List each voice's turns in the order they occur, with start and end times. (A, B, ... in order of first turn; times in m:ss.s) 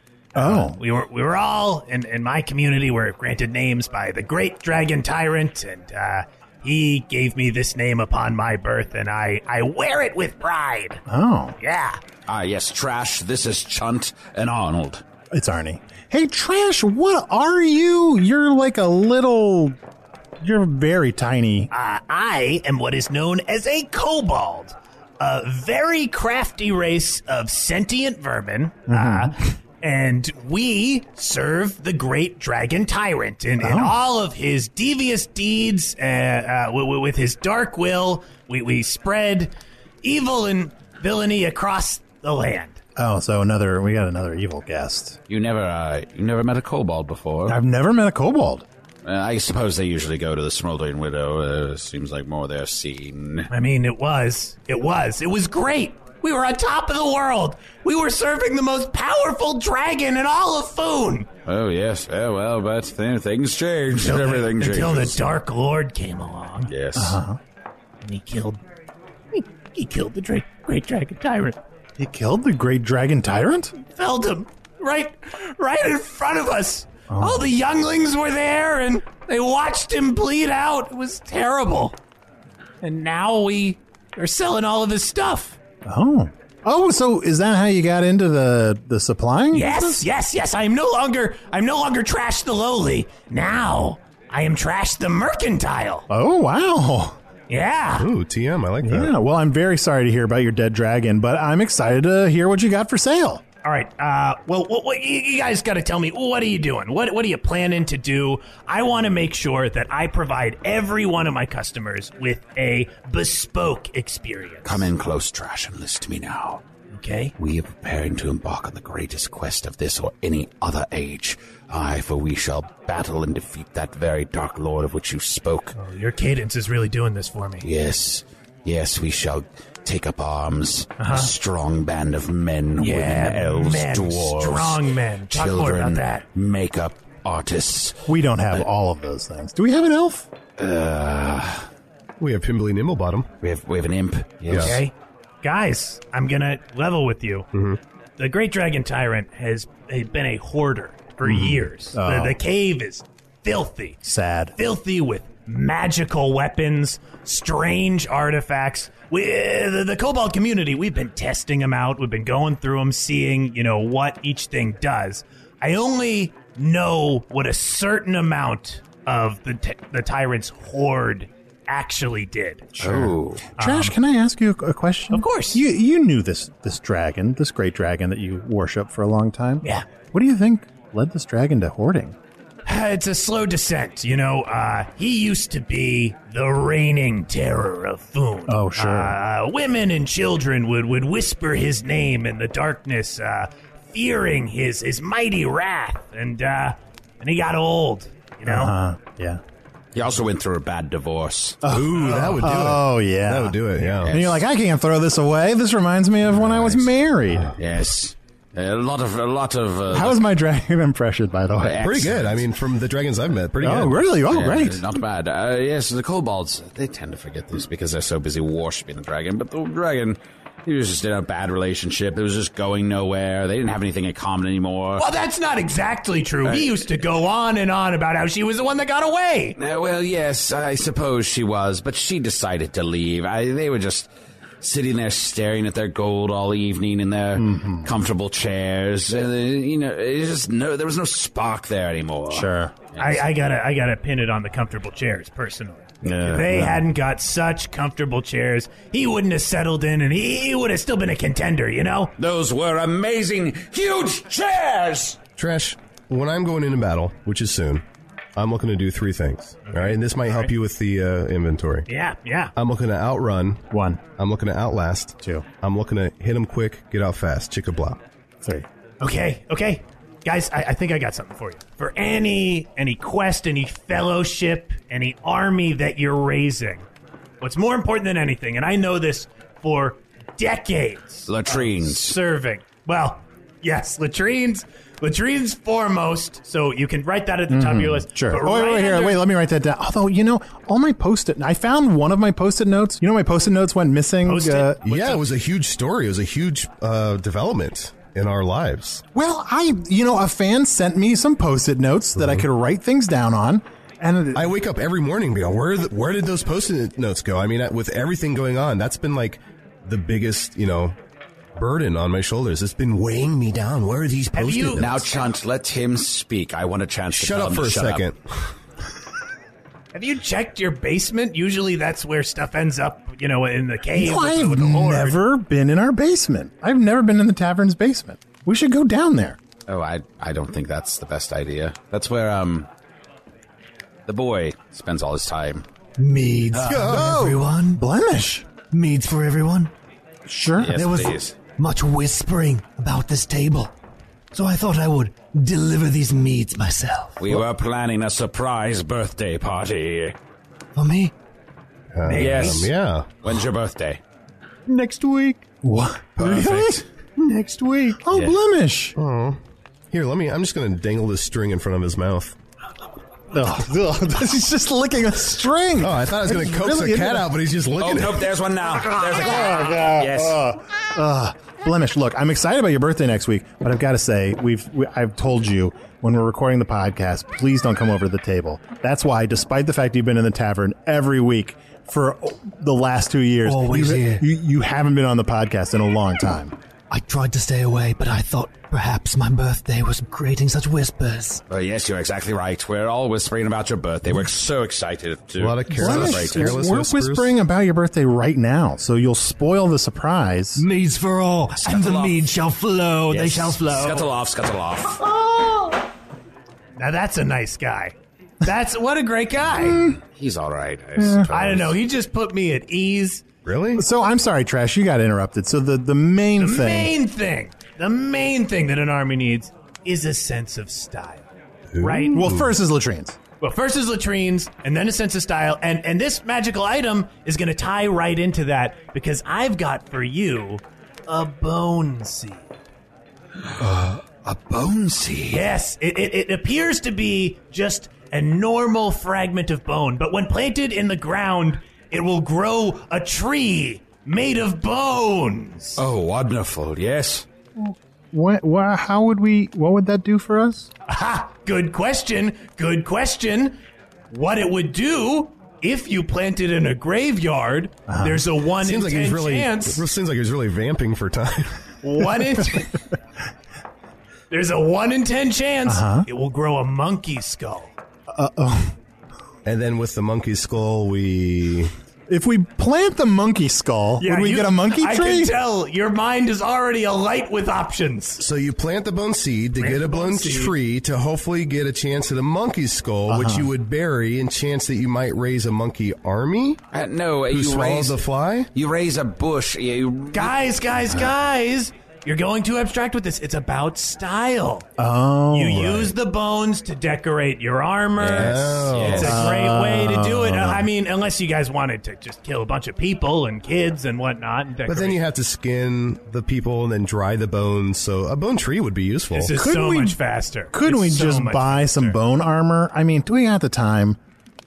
0:00.4-0:00.8 A
0:00.4-0:11.0 B
0:11.1-0:11.6 A
0:11.6-0:12.0 B
0:12.3-0:15.0 C
0:15.3-0:19.8 A
0:20.4-0:21.7 A
0:21.7-0:39.5 B
0:28.9-0:29.4 A
0:33.6-0:34.0 A
0:40.0-0:42.8 B
0:43.0-0:45.2 A
0:45.3-0:47.6 C
0:47.5-0:48.7 A
0:49.0-0:53.5 C
0:53.5-1:01.3 B
1:01.5-1:05.2 C
1:04.0-1:06.7 B
1:06.7-1:07.2 C
1:07.0-1:07.4 A
1:08.0-1:08.6 B
1:09.3-1:11.6 B
1:12.0-1:13.7 A
1:13.9-1:22.0 B
1:17.1-1:17.5 A
1:22.8-1:25.6 B
1:25.8-1:30.1 A
1:29.5-1:36.1 B
1:36.1-1:37.2 A
1:37.5-1:38.1 B
1:38.0-1:39.2 D
1:38.8-1:43.4 A
1:43.6-1:54.9 B
1:54.6-1:56.6 C
1:56.9-1:57.3 B
1:57.4-2:05.7 C
2:05.8-2:07.7 B
2:07.6-2:18.0 C
2:11.0-2:11.3 B
2:12.8-2:16.2 B
2:18.1-2:20.3 A
2:20.6-2:21.6 C
2:22.2-2:23.3 D
2:23.4-2:24.8 C
2:24.5-2:24.8 D
2:24.5-2:24.9 B
2:25.4-2:27.5 B
2:27.5-2:27.8 D
2:28.2-2:34.0 B
2:31.3-2:32.4 A
2:34.0-2:34.5 A
2:34.6-2:52.7 B
2:52.8-3:02.2 A
2:52.8-2:53.4 C
2:53.6-2:53.9 B
2:55.1-2:55.6 B
3:02.7-3:18.7 B
3:08.5-3:09.2 A
3:18.4-3:19.4 A
3:20.0-3:21.6 C
3:21.6-3:27.5 A
3:21.7-3:24.1 D
3:24.0-3:24.4 C
3:26.4-3:26.9 C
3:27.6-3:30.3 C
3:29.9-3:32.0 A
3:31.6-3:32.5 C
3:31.8-3:34.1 D
3:33.6-3:34.8 A
3:34.3-3:45.1 C
3:45.0-3:49.6 B
3:46.4-3:46.8 C
3:49.6-3:54.1 C
3:54.6-4:03.2 C
3:57.4-3:57.9 A
4:02.3-4:02.7 A
4:03.0-4:12.1 B
4:06.0-4:06.8 C
4:12.2-4:15.2 C
4:15.4-4:17.8 D
4:18.4-4:21.9 D
4:19.7-4:20.5 B
4:21.9-4:22.5 B
4:22.6-4:23.6 D
4:23.7-4:24.0 A
4:24.2-4:28.0 D
4:29.0-4:36.9 B
4:37.4-4:49.2 B
4:41.3-4:42.2 C
4:47.5-4:54.8 A
4:54.2-4:55.3 B
4:54.8-4:59.0 D
4:59.1-5:04.5 A
5:02.2-5:02.4 D
5:04.3-5:11.0 D
5:11.6-5:15.1 D
5:14.3-5:14.9 B
5:14.8-5:18.1 C
5:17.1-5:18.5 D
5:19.9-5:25.2 B
5:24.0-5:29.4 A
5:29.7-5:32.7 C
5:34.1-5:35.7 C
5:36.0-5:37.8 E
5:36.5-5:37.0 C
5:36.7-5:38.5 A
5:38.7-5:39.7 E
5:40.3-5:40.8 A
5:40.6-5:41.4 C
5:40.7-5:43.7 E
5:44.3-5:47.4 E
5:47.2-5:50.2 C
5:50.8-5:51.1 E
5:51.9-5:53.1 D
5:52.0-5:52.7 B
5:52.1-5:54.0 C
5:54.7-5:55.5 E
5:55.6-5:56.8 A
5:56.2-5:56.7 C
5:56.2-5:56.6 D
5:57.2-5:58.0 E
5:58.0-5:59.0 A
5:59.0-5:59.4 D
5:59.9-6:02.4 D
6:03.3-6:07.3 A
6:05.8-6:08.3 D
6:07.8-6:10.5 C
6:09.1-6:26.6 A
6:23.4-6:24.2 E
6:26.9-6:31.4 E
6:31.5-6:36.6 C
6:35.4-6:37.3 D
6:35.7-6:40.6 A
6:40.6-6:44.1 E
6:41.6-6:42.4 C
6:43.1-6:45.0 C
6:46.8-6:49.8 B
6:49.6-6:49.9 A
6:49.8-6:51.8 C
6:51.0-6:51.3 A
6:51.3-6:53.2 B
6:53.4-6:53.8 D
6:53.8-6:56.9 A
6:56.4-7:01.2 B
7:01.7-7:02.5 D
7:01.8-7:02.2 B
7:02.1-7:03.2 A
7:03.4-7:12.5 B
7:13.6-7:15.4 C
7:15.3-7:25.8 B
7:25.8-7:27.3 C
7:27.6-7:30.7 A
7:30.9-7:33.6 B
7:34.1-7:39.8 B
7:37.9-7:38.2 A
7:38.6-7:41.5 D
7:41.8-7:42.7 B
7:44.3-7:47.7 B
7:45.7-7:46.1 A
7:48.1-7:48.8 A
7:49.4-7:51.7 D
7:52.1-7:55.3 A
7:54.0-7:58.2 B
7:58.2-8:06.6 D
7:59.6-8:00.5 B
8:03.1-8:03.5 A
8:06.7-8:11.0 C
8:07.3-8:08.5 D
8:10.1-8:14.7 B
8:14.8-8:15.9 A
8:15.3-8:25.0 B
8:18.0-8:19.3 C
8:18.1-8:19.3 D
8:19.0-8:20.7 A
8:24.7-8:29.3 D
8:29.1-8:32.0 B
8:29.4-8:30.0 A
8:30.5-8:34.0 A